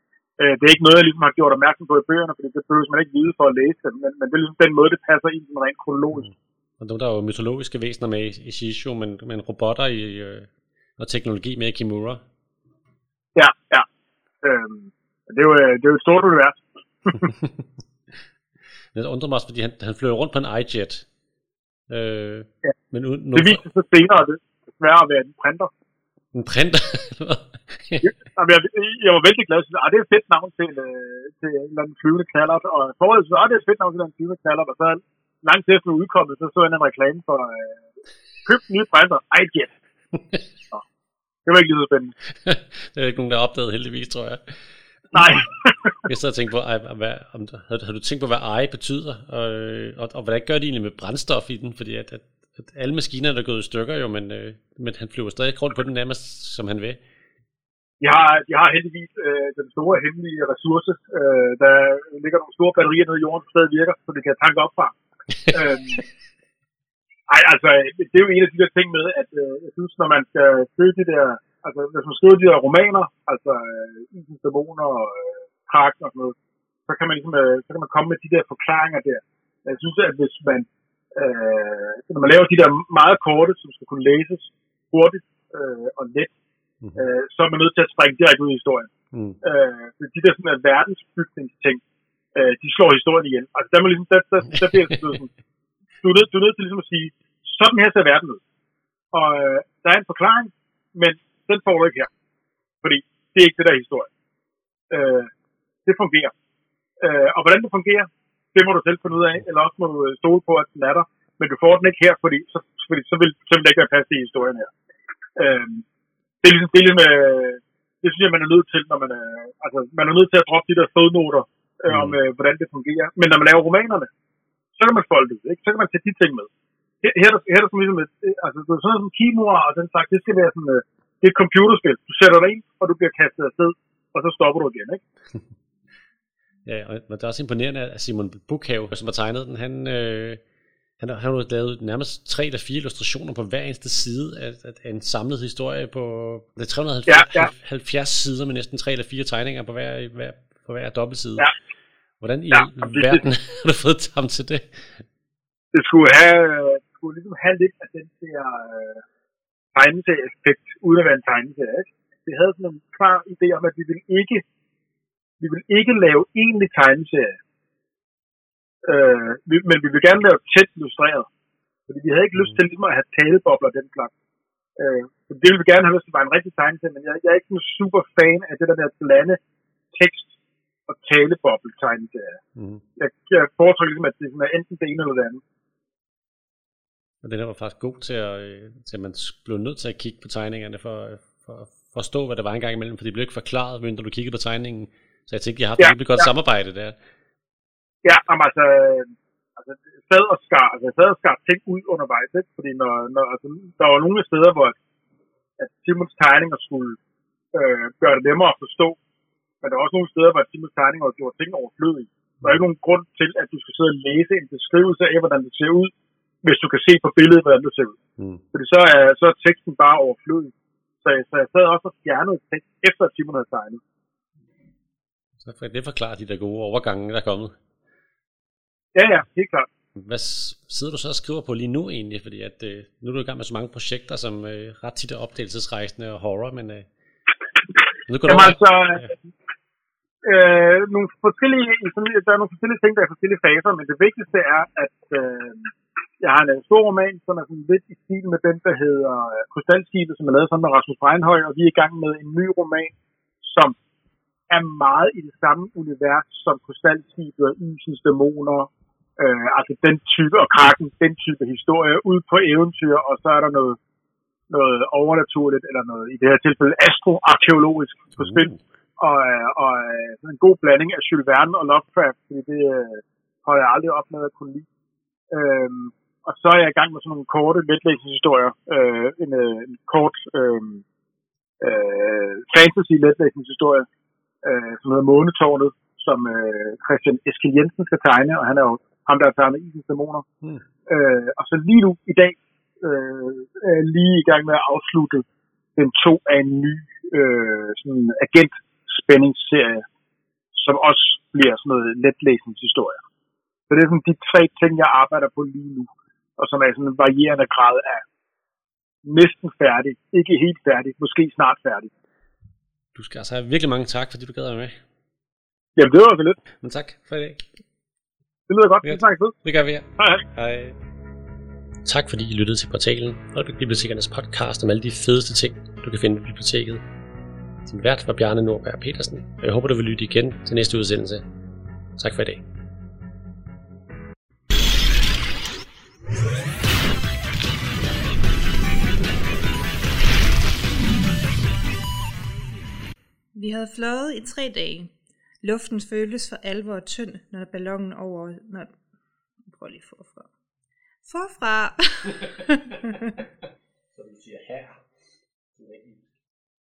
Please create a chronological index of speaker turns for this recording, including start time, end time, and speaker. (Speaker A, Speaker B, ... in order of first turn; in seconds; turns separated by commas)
Speaker A: 0.4-6.3, Speaker B: 6.8-12.2, Speaker A: 13.3-13.9, Speaker A: 14.4-17.3, Speaker B: 17.2-17.6, Speaker B: 18.9-21.1, Speaker B: 21.9-23.6, Speaker A: 23.4-25.7, Speaker B: 26.3-28.1, Speaker A: 28.0-37.8, Speaker A: 38.5-39.7, Speaker A: 41.5-42.1, Speaker B: 42.4-44.4, Speaker B: 45.1-45.4, Speaker A: 45.1-46.0, Speaker B: 46.0-57.0, Speaker A: 58.0-65.0, Speaker A: 65.5-66.0, Speaker A: 67.3-76.3, Speaker A: 76.9-86.3, Speaker A: 87.0-88.9, Speaker B: 89.1-89.4, Speaker A: 89.4-91.8, Speaker A: 92.3-95.3, Speaker A: 96.0-98.4, Speaker A: 99.1-102.1, Speaker A: 102.8-104.1, Speaker A: 104.9-105.3, Speaker A: 105.8-106.3, Speaker A: 107.0-114.7, Speaker A: 115.4-115.8, Speaker A: 116.4-124.1, Speaker B: 121.9-122.2, Speaker A: 124.8-126.5, Speaker A: 127.0-135.0, Speaker B: 136.7-140.4, Speaker B: 141.0-151.5, Speaker A: 147.1-147.5, Speaker B: 152.2-155.0, Speaker A: 152.5-153.2, Speaker A: 155.7-159.0, Speaker A: 159.7-164.4, Speaker A: 165.4-167.4, Speaker A: 168.8-171.3, Speaker A: 171.9-174.1, Speaker A: 174.8-179.4, Speaker A: 179.9-180.3, Speaker A: 180.9-182.4, Speaker B: 182.6-182.8, Speaker A: 183.0-185.4, Speaker B: 187.2-197.0, Speaker A: 195.8-196.3, Speaker A: 198.0-204.8, Speaker A: 205.6-207.0, Speaker A: 207.5-209.0, Speaker A: 209.6-215.9, Speaker A: 216.4-218.0, Speaker B: 218.2-218.4, Speaker A: 218.5-223.8, Speaker B: 225.4-227.6, Speaker A: 228.9-229.7, Speaker B: 230.0-236.9, Speaker B: 238.1-239.1, Speaker A: 238.3-239.1, Speaker A: 240.2-253.8, Speaker A: 254.5-263.8, Speaker A: 264.5-268.5, Speaker B: 268.2-268.6, Speaker A: 269.0-274.7, Speaker A: 275.3-280.8, Speaker A: 281.6-283.9, Speaker A: 284.4-290.2, Speaker A: 290.9-295.2, Speaker A: 295.8-299.9, Speaker A: 300.5-303.0, Speaker A: 303.7-308.0, Speaker A: 309.0-311.9, Speaker B: 312.9-314.8, Speaker A: 315.8-316.4, Speaker B: 316.6-317.5, Speaker A: 318.5-319.4, Speaker B: 318.8-320.8, Speaker B: 321.9-326.8, Speaker B: 327.7-331.3, Speaker B: 332.0-332.4, Speaker C: 343.3-348.7, Speaker C: 349.5-350.3, Speaker C: 351.1-353.2, Speaker B: 353.9-354.8, Speaker B: 355.6-356.1